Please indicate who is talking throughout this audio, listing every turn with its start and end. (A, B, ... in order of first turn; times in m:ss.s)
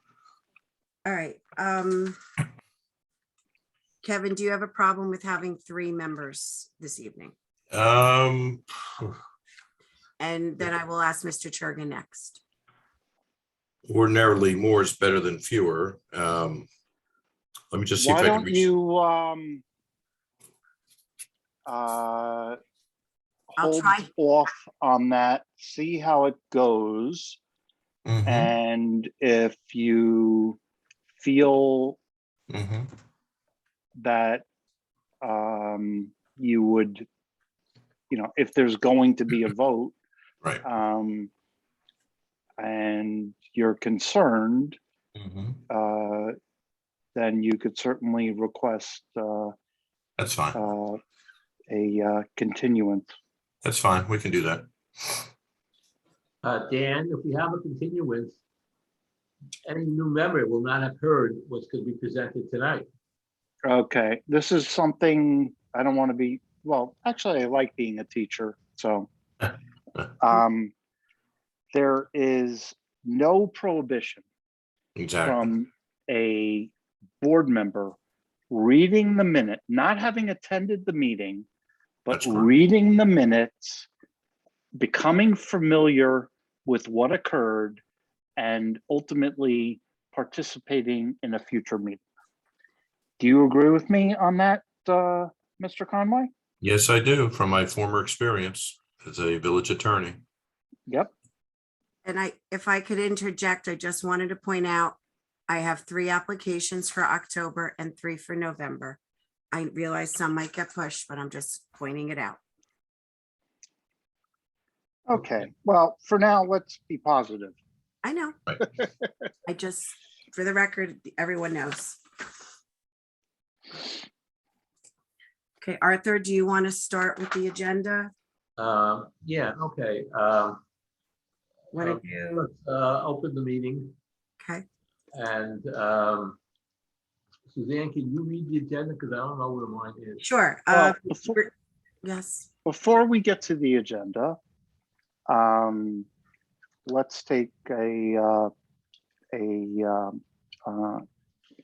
0:01.0-0:02.2 A
0:04.0-0:07.3 A
0:07.7-0:09.1 B
0:10.2-0:12.4 A
0:13.8-0:16.7 B
0:17.7-0:18.7 B
0:18.0-0:19.6 C
0:21.6-0:22.6 C
0:23.5-0:27.4 C
0:23.6-0:24.1 A
0:28.0-0:28.5 B
0:28.2-0:30.6 C
0:31.2-0:32.0 C
0:32.5-0:32.9 B
0:34.0-0:34.4 C
0:35.2-0:37.1 C
0:38.1-0:39.9 C
0:40.6-0:41.3 C
0:42.6-0:44.8 C
0:45.2-0:45.6 B
0:45.7-0:46.4 C
0:47.1-0:49.5 C
0:50.2-0:50.6 B
0:50.5-0:51.0 C
0:51.7-0:53.1 C
0:53.6-0:55.2 B
0:56.4-0:58.4 D
0:59.6-1:02.9 D
1:03.6-1:09.1 C
1:10.2-1:10.7 C
1:11.7-1:14.2 C
1:15.0-1:15.5 B
1:15.2-1:18.0 C
1:18.5-1:21.4 C
1:22.0-1:23.9 C
1:22.1-1:22.5 B
1:24.7-1:27.8 C
1:28.4-1:32.0 C
1:33.2-1:36.3 C
1:36.6-1:40.2 B
1:42.0-1:45.0 A
1:45.5-1:49.0 A
1:49.5-1:52.4 A
1:55.1-1:57.6 C
1:58.0-1:58.5 A
1:59.4-2:02.0 A
2:05.6-2:08.1 A
2:08.6-2:10.6 D
2:11.7-2:12.5 A
2:11.8-2:13.9 D
2:15.1-2:16.4 D
2:17.5-2:20.2 D
2:20.2-2:21.5 A
2:20.7-2:21.4 C
2:22.0-2:22.5 A
2:22.6-2:24.4 C
2:25.3-2:26.1 C
2:26.8-2:28.5 C
2:29.3-2:31.0 C